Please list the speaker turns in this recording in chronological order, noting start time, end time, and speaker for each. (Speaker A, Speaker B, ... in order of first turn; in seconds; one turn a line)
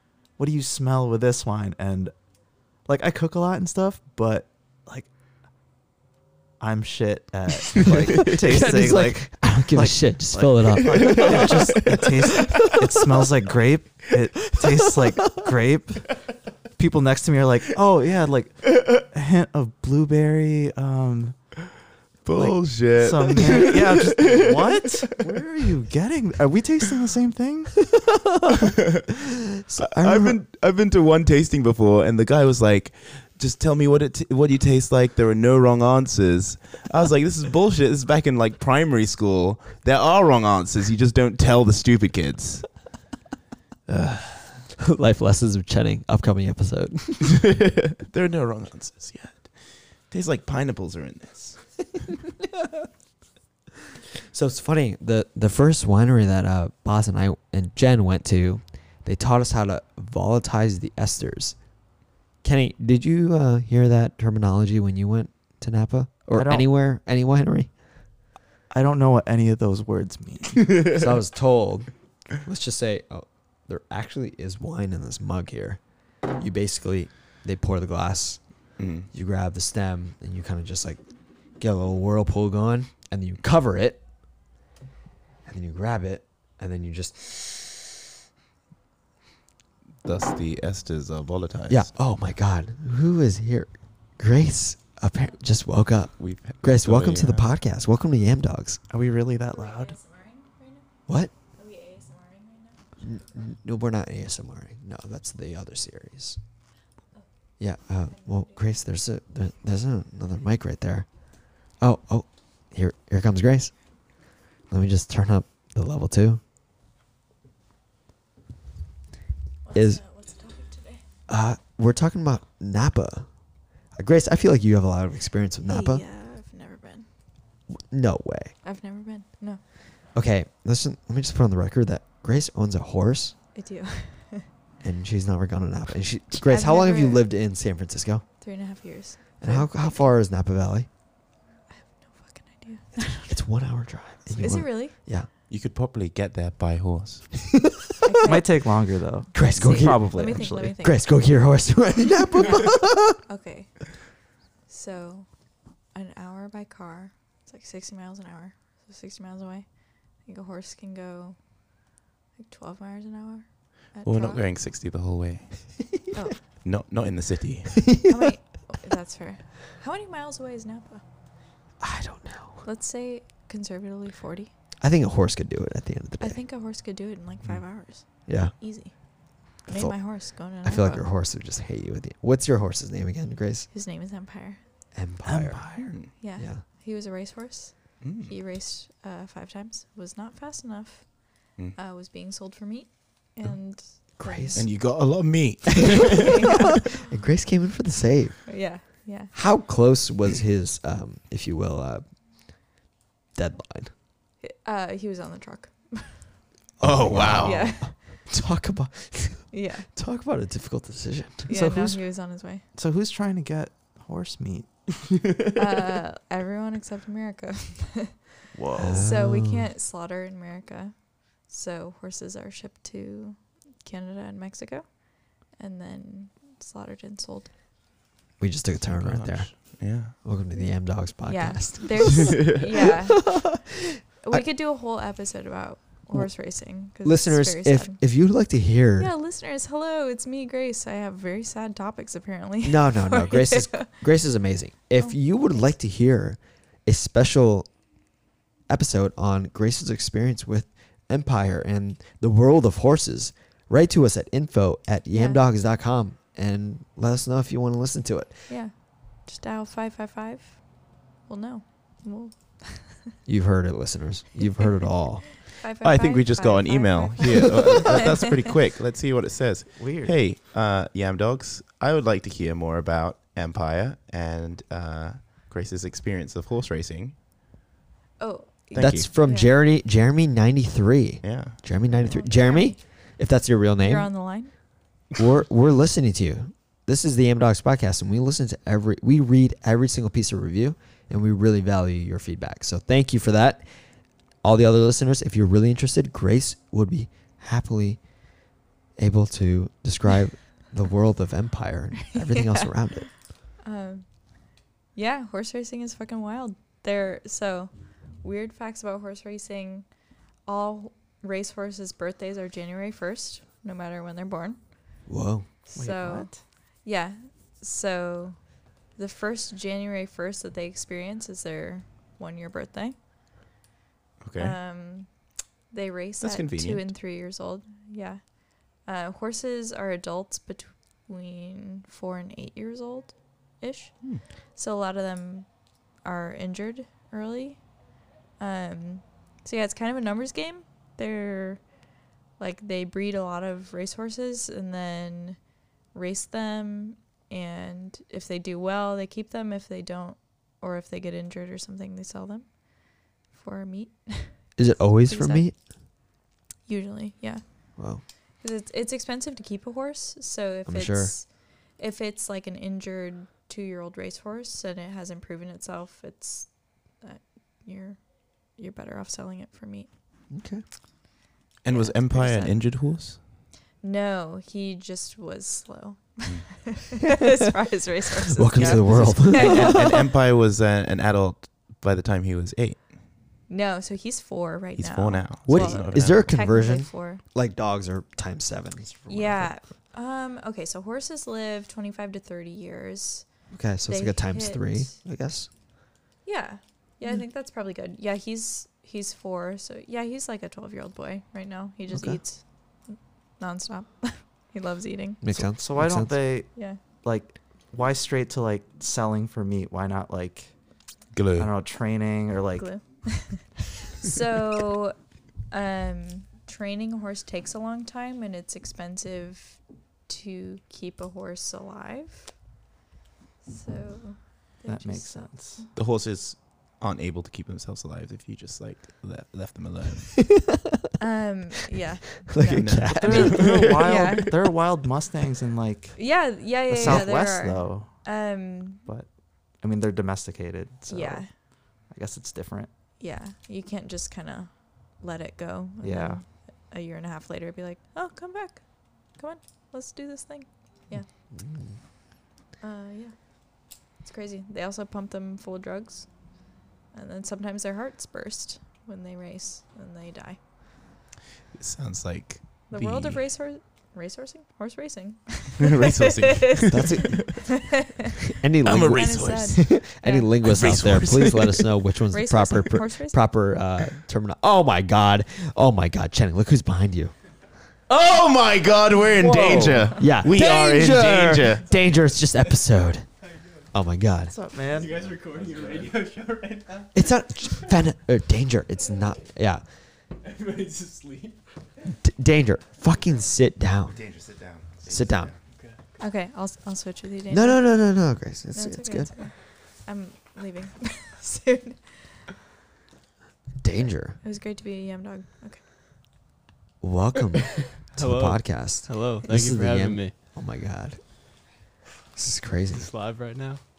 Speaker A: 0.3-2.1
Speaker A: 2.8-5.1
Speaker A: 6.6-16.2
Speaker B: 8.2-11.9
Speaker C: 11.1-11.4
Speaker A: 16.7-21.5
Speaker C: 22.2-24.6
Speaker A: 22.3-27.8
Speaker B: 29.6-30.4
Speaker C: 29.9-42.6
Speaker C: 43.9-44.6
Speaker B: 44.8-47.4
Speaker C: 47.3-51.6
Speaker B: 54.3-61.6
Speaker B: 62.4-67.7
Speaker A: 66.3-66.7
Speaker A: 68.7-70.7
Speaker B: 70.9-75.8
Speaker B: 76.3-78.4
Speaker C: 78.8-79.1
Speaker B: 79.1-81.0
Speaker B: 81.6-84.0
Speaker B: 85.4-87.9
Speaker C: 90.0-91.9
Speaker B: 91.7-98.8
Speaker C: 96.2-97.5
Speaker A: 98.9-100.0
Speaker D: 99.5-100.8
Speaker B: 101.1-101.3
Speaker D: 101.6-102.8
Speaker B: 103.0-106.4
Speaker B: 107.6-113.7
Speaker B: 114.7-116.4
Speaker D: 119.7-121.0
Speaker B: 119.7-120.0
Speaker B: 121.3-123.3
Speaker B: 123.9-126.0
Speaker D: 125.7-127.1
Speaker B: 127.8-128.5
Speaker D: 128.6-129.6
Speaker B: 130.1-133.3
Speaker D: 133.5-134.5
Speaker B: 134.8-138.2
Speaker D: 136.3-137.2
Speaker D: 138.4-140.1
Speaker B: 139.4-140.9
Speaker D: 141.8-143.3
Speaker B: 143.0-145.3
Speaker D: 144.3-144.9
Speaker C: 145.5-147.4
Speaker D: 148.0-148.5
Speaker A: 148.3-150.7
Speaker B: 149.3-153.2
Speaker D: 149.5-151.0
Speaker D: 153.2-153.9
Speaker D: 154.7-155.3
Speaker D: 155.9-161.4
Speaker D: 162.4-164.4
Speaker C: 164.0-165.9
Speaker C: 166.6-167.8
Speaker B: 167.9-168.3
Speaker D: 168.1-171.0
Speaker B: 171.8-172.6
Speaker D: 172.6-174.5
Speaker B: 174.8-176.4
Speaker D: 176.2-178.9
Speaker B: 178.3-178.5
Speaker D: 179.5-181.0
Speaker B: 179.7-183.7
Speaker D: 183.7-184.6
Speaker B: 184.9-186.6
Speaker A: 185.2-185.9
Speaker D: 186.2-194.6
Speaker C: 188.0-188.3
Speaker B: 194.2-194.7
Speaker C: 194.5-196.3
Speaker D: 196.1-196.9
Speaker B: 197.0-198.4
Speaker D: 198.5-199.3
Speaker B: 199.3-202.0
Speaker B: 203.3-203.9
Speaker D: 204.4-206.3
Speaker B: 206.8-211.5
Speaker C: 206.8-207.7
Speaker D: 207.3-208.0
Speaker D: 209.5-209.9
Speaker D: 211.5-212.6
Speaker A: 211.5-212.1
Speaker A: 212.6-214.7
Speaker D: 215.5-218.2
Speaker A: 218.5-219.1
Speaker B: 218.8-219.7
Speaker D: 218.9-227.5
Speaker B: 228.4-233.7
Speaker C: 228.8-230.1
Speaker D: 231.2-233.6
Speaker D: 234.2-238.0
Speaker B: 236.1-239.1
Speaker D: 239.0-243.9
Speaker B: 242.6-247.7
Speaker B: 248.7-258.5
Speaker D: 255.1-255.4
Speaker D: 258.5-263.0
Speaker B: 263.2-265.4
Speaker D: 265.4-268.1
Speaker C: 265.8-277.1
Speaker A: 269.8-270.1
Speaker D: 278.2-279.5
Speaker C: 278.7-279.1
Speaker B: 278.8-284.1
Speaker C: 281.2-281.6
Speaker D: 281.9-282.8
Speaker D: 283.8-284.5
Speaker B: 285.1-293.7
Speaker B: 294.4-298.1
Speaker B: 298.9-303.1
Speaker D: 302.2-302.7
Speaker D: 303.6-304.1
Speaker D: 304.9-309.9
Speaker D: 310.4-314.7
Speaker B: 315.1-315.5
Speaker D: 315.7-323.0
Speaker A: 315.7-316.4
Speaker C: 324.2-324.6
Speaker D: 324.4-325.1
Speaker D: 325.7-333.9
Speaker C: 326.2-326.9
Speaker D: 334.6-335.5
Speaker D: 336.0-337.8
Speaker D: 338.4-341.6
Speaker D: 342.4-345.4
Speaker D: 345.9-355.5
Speaker B: 354.6-355.5
Speaker D: 356.6-357.4
Speaker B: 357.8-358.0
Speaker D: 358.4-366.5
Speaker B: 360.6-361.1
Speaker D: 367.0-369.9
Speaker B: 370.3-370.6
Speaker C: 371.6-373.2
Speaker D: 371.7-372.6
Speaker D: 373.8-380.1
Speaker B: 378.3-379.9
Speaker C: 378.5-382.9
Speaker D: 383.5-387.2
Speaker C: 384.8-386.3
Speaker B: 385.4-389.5
Speaker D: 389.1-393.3
Speaker B: 393.5-395.5
Speaker D: 393.8-394.9
Speaker D: 396.2-405.3
Speaker B: 401.9-402.2
Speaker B: 405.2-406.2
Speaker A: 405.6-406.5
Speaker A: 407.0-410.5
Speaker C: 411.1-411.5
Speaker A: 411.4-412.7
Speaker D: 412.6-414.9
Speaker D: 415.5-422.3
Speaker D: 423.4-425.7
Speaker A: 424.7-425.6
Speaker C: 425.7-430.3
Speaker D: 431.0-434.3
Speaker B: 432.2-433.8
Speaker C: 432.5-433.9
Speaker A: 433.0-436.0
Speaker D: 435.9-438.8
Speaker A: 436.7-437.9
Speaker A: 438.8-441.3
Speaker D: 440.9-441.3
Speaker A: 441.8-442.7
Speaker D: 443.0-451.1
Speaker A: 445.8-446.2
Speaker B: 451.3-451.7
Speaker D: 452.6-456.4
Speaker D: 456.9-460.4
Speaker C: 461.6-463.2
Speaker D: 462.7-467.9
Speaker C: 465.6-467.2
Speaker B: 466.7-467.8
Speaker B: 468.3-477.1
Speaker C: 468.6-469.8
Speaker D: 468.6-470.3
Speaker C: 470.4-471.6
Speaker D: 472.1-473.2
Speaker C: 477.9-481.6
Speaker A: 479.2-479.9
Speaker B: 480.0-483.1
Speaker B: 483.7-484.3
Speaker A: 484.3-484.9
Speaker E: 484.7-486.9
Speaker B: 486.9-489.6
Speaker E: 490.2-491.4
Speaker B: 492.0-494.1
Speaker C: 493.9-495.4
Speaker B: 494.9-495.3
Speaker E: 495.6-495.9
Speaker D: 496.0-497.7
Speaker B: 497.3-499.1
Speaker D: 498.5-502.2
Speaker B: 503.6-504.2
Speaker D: 504.2-505.6
Speaker B: 506.8-511.0
Speaker E: 507.9-510.1
Speaker B: 512.1-512.9
Speaker E: 512.7-513.6